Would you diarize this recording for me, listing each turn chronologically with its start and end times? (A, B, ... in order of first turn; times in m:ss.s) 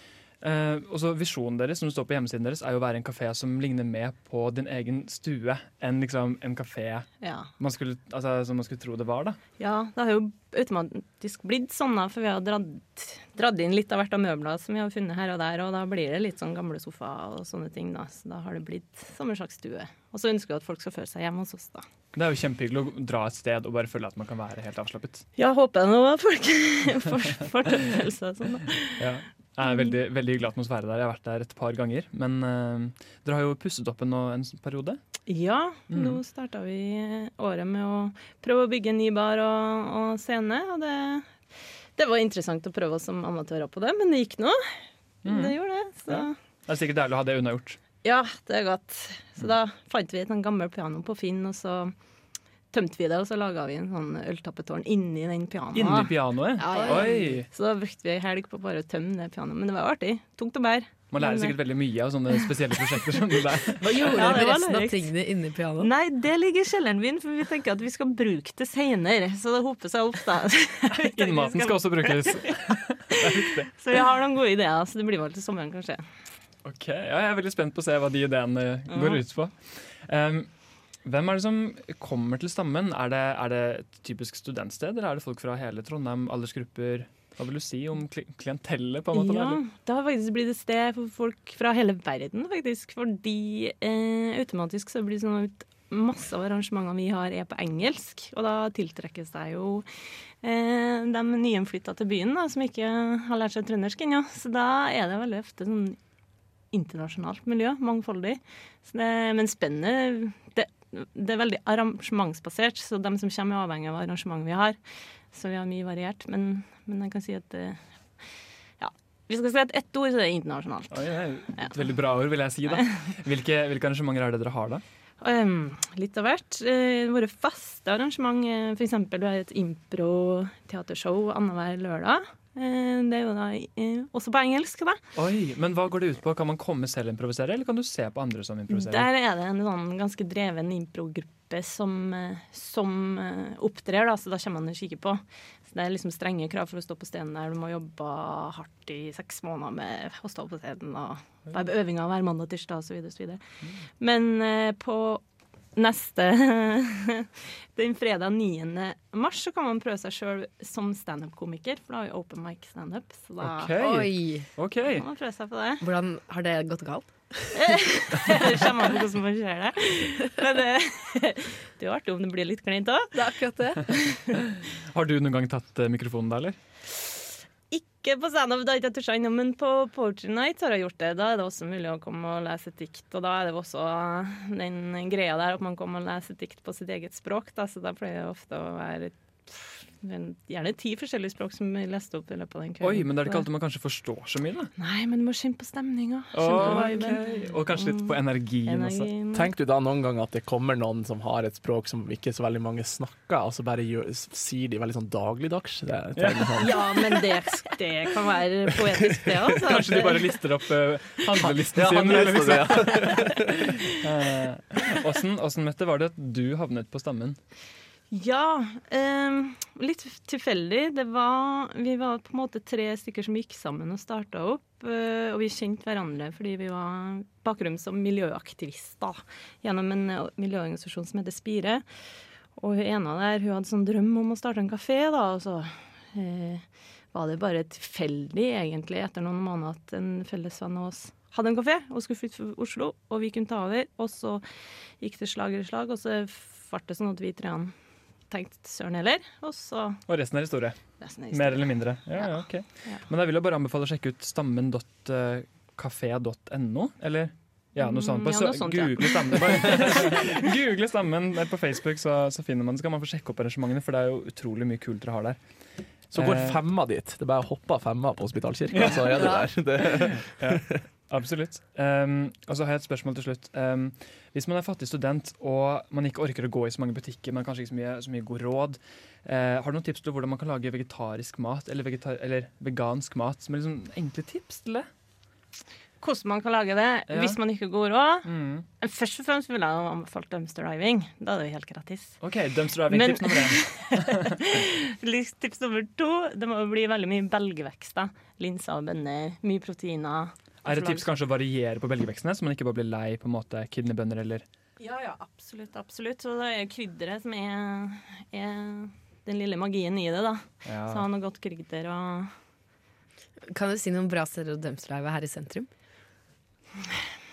0:00.4-0:07.1 A
0:07.2-0:07.5 B
0:07.6-0:09.4 A
0:09.6-0:21.9 B
0:22.1-0:25.2 A
0:25.4-0:29.0 B
0:29.0-0:35.0 A
0:29.6-0:30.0 B
0:35.3-0:41.3 B
0:35.9-0:36.2 A
0:42.0-0:44.6 B
0:45.2-0:45.6 A
0:45.2-0:46.3 B
0:46.1-0:47.8 A
0:48.0-0:51.9 B
0:52.7-1:01.6 B
0:55.7-0:57.5 A
0:56.6-0:57.4 C
1:01.1-1:04.4 A
1:03.8-1:05.9 C
1:04.1-1:05.1 B
1:05.8-1:12.6 B
1:10.9-1:13.7 A
1:13.1-1:16.0 B
1:16.6-1:19.5 A
1:18.9-1:19.2 B
1:20.1-1:20.5 A
1:21.0-1:29.6 A
1:29.1-1:39.9 B
1:40.4-1:46.0 B
1:46.7-1:54.8 B
1:55.3-1:57.8 B
1:58.8-2:01.0 B
2:00.9-2:04.8 A
2:02.7-2:03.0 B
2:05.2-2:15.0 B
2:15.2-2:19.1 A
2:18.7-2:33.4 B
2:34.0-2:35.2 B
2:35.8-2:43.8 B
2:43.4-2:45.0 A
2:43.8-2:44.5 C
2:45.0-2:45.8 B
2:45.8-2:48.4 C
2:47.5-2:53.1 B
2:53.1-2:54.4 C
2:54.9-2:56.6 A
2:57.7-3:13.4 B
3:12.8-3:14.7 A
3:14.8-3:19.5 B
3:16.3-3:19.1 A
3:19.3-3:26.8 D
3:26.2-3:26.8 A
3:26.6-3:30.3 B
3:28.8-3:29.8 D
3:29.6-3:37.4 A
3:31.4-3:33.7 D
3:38.1-3:51.8 B
3:52.6-4:04.4 B
4:05.0-4:07.7 B
4:08.3-4:10.0 B
4:10.1-4:10.8 A
4:11.0-4:13.0 B
4:11.3-4:25.4 A
4:17.8-4:20.4 B
4:26.1-4:26.6 A
4:26.1-4:30.8 D
4:28.7-4:44.9 A
4:46.0-4:48.3 B
4:47.1-4:47.4 A
4:48.2-4:48.6 A
4:48.8-4:52.2 B
4:52.2-4:54.4 A
4:52.9-5:01.1 B
5:00.6-5:04.4 A
5:04.8-5:12.3 B
5:10.6-5:11.0 A
5:13.5-5:15.7 C